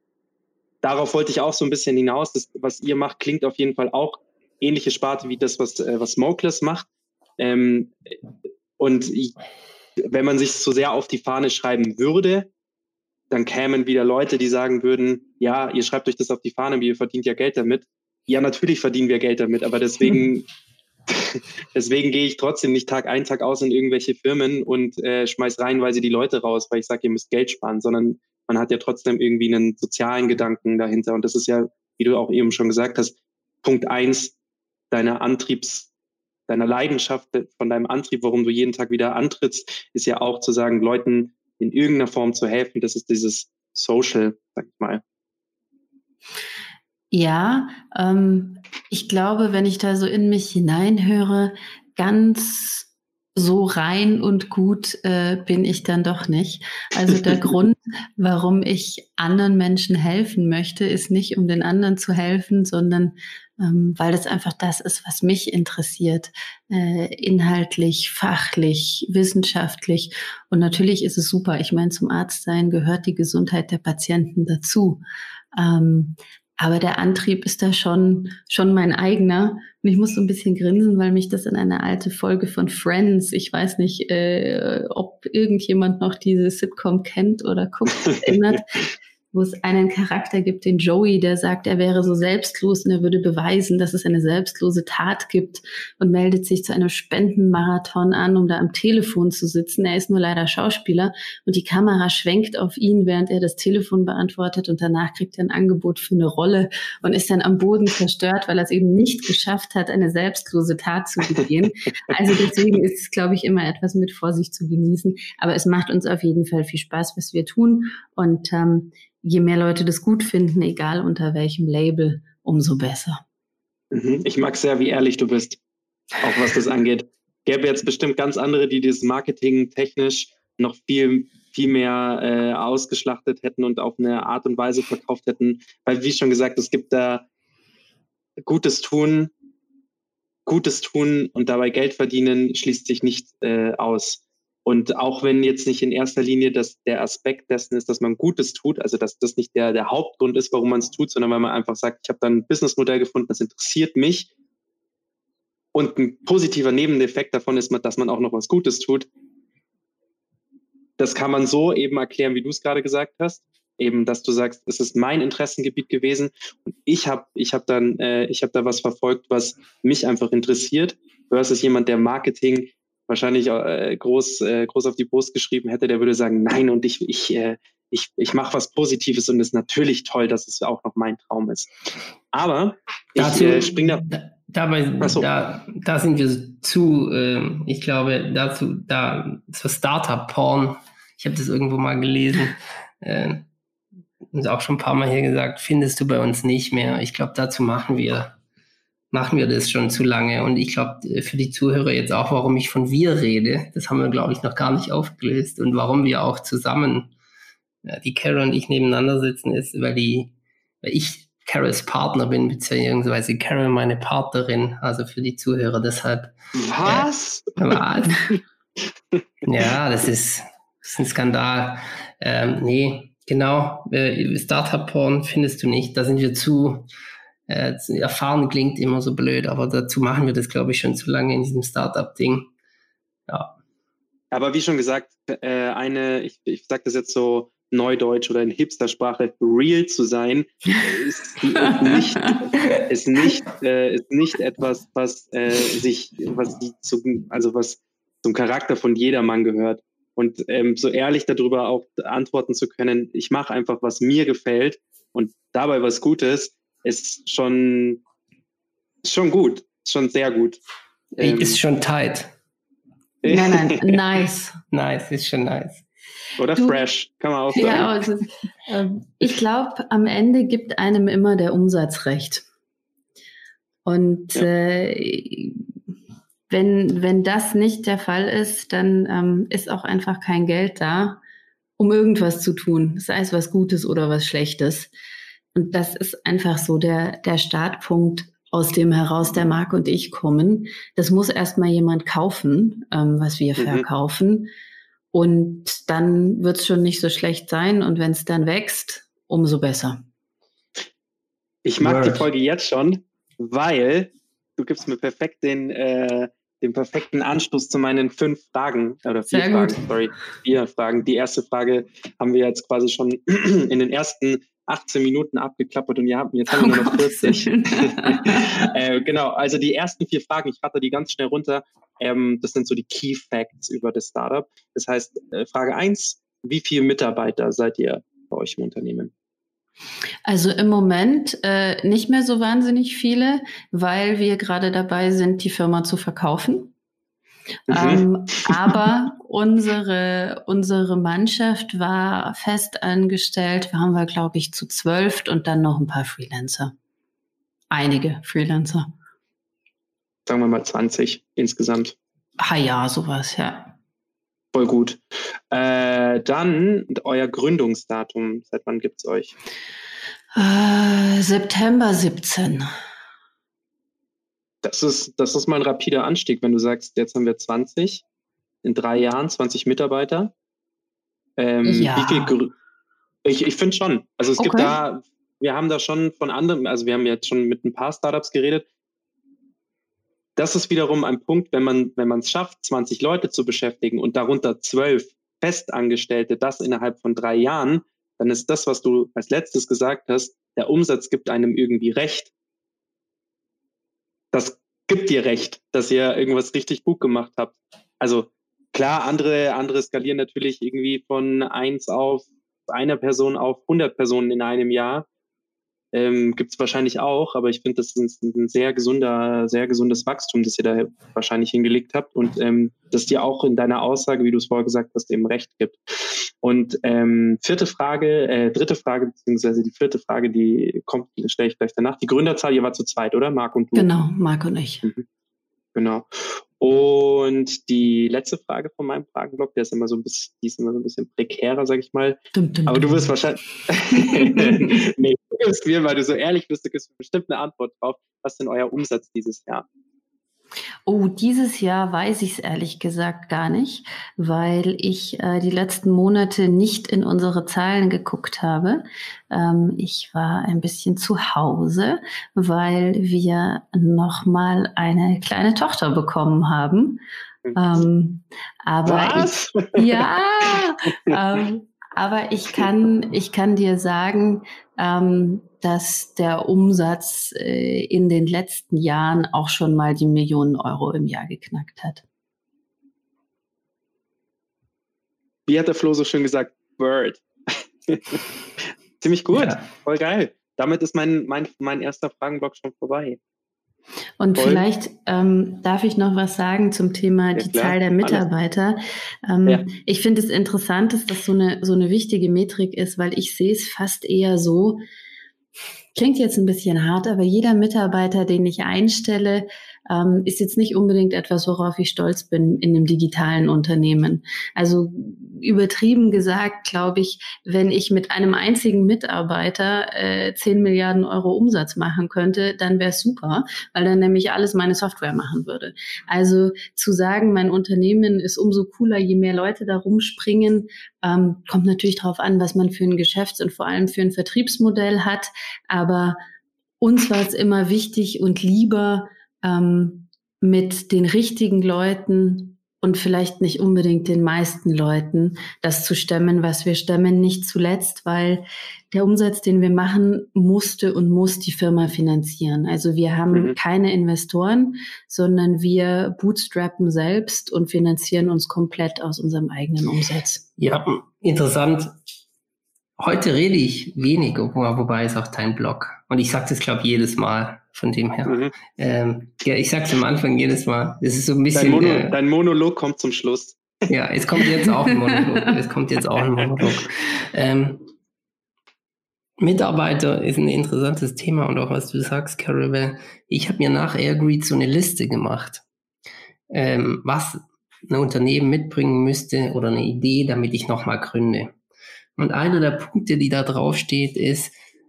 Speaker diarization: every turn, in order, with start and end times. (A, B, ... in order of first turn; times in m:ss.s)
0:00.8-0:06.9 A
0:07.4-0:07.9 A
0:08.8-0:09.3 A
0:10.0-0:12.5 A
0:13.3-0:20.4 A
0:21.1-0:34.3 A
0:34.9-0:35.9 A
0:36.5-0:45.0 A
0:47.1-1:15.0 B
1:15.5-1:28.7 B
1:29.3-2:03.2 B
2:03.9-2:05.6 A
2:06.2-2:17.3 A
2:18.4-2:19.3 A
2:20.4-2:34.3 A
2:35.7-2:39.1 A
2:41.0-3:01.7 A
3:02.3-3:04.0 A
3:03.2-3:13.4 C
3:05.0-3:05.3 A
3:14.3-3:18.3 C
3:19.1-3:27.1 C
3:27.8-3:38.3 C
3:36.6-3:37.8 A
3:39.4-3:46.9 C
3:47.5-3:52.5 C
3:53.3-3:53.6 C
3:54.3-4:18.0 A
4:19.0-4:20.6 A
4:21.2-4:22.3 C
4:21.2-4:21.6 A
4:23.2-4:24.0 A
4:23.2-4:24.6 B
4:24.7-4:25.8 C
4:26.4-4:27.9 A
4:27.5-4:32.4 B
4:33.8-4:35.6 B
4:36.5-4:41.2 B
4:41.8-4:44.9 B
4:45.5-4:54.5 B
4:53.6-4:53.8 A
4:55.1-5:00.0 B
5:01.6-5:29.1 A
5:01.8-5:02.3 C
5:09.3-5:09.8 B
5:16.5-5:18.7 B
5:30.2-5:36.7 B
5:37.7-5:38.7 A
5:37.7-5:46.7 B
5:47.7-5:48.9 B
5:50.3-5:51.9 A
5:52.4-5:53.7 B
5:54.5-5:59.3 A
6:00.3-6:02.7 B
6:04.6-6:08.0 A
6:08.6-6:10.3 A
6:11.4-6:12.5 A
6:11.6-6:12.3 B
6:13.2-6:18.6 A
6:14.4-6:14.7 B
6:20.4-6:32.3 A
6:34.3-6:45.0 A
6:45.9-7:03.9 A
7:03.7-7:04.8 B
7:05.7-7:19.6 A
7:12.3-7:13.1 B
7:13.9-7:14.8 B
7:20.8-7:37.0 B
7:37.5-7:52.0 B
7:38.8-7:39.9 A
7:55.5-7:58.2 A
7:59.0-8:03.2 A
7:59.3-7:59.6 C
8:04.2-8:14.8 B
8:04.4-8:04.6 A
8:07.4-8:08.2 A
8:15.9-8:46.2 B
8:46.8-9:10.4 B
9:10.6-9:11.9 C
9:13.0-9:22.2 C
9:18.2-9:18.5 A
9:21.5-9:23.7 A
9:23.9-9:27.8 C
9:29.4-9:35.6 C
9:36.5-9:41.5 C
9:42.2-9:44.5 C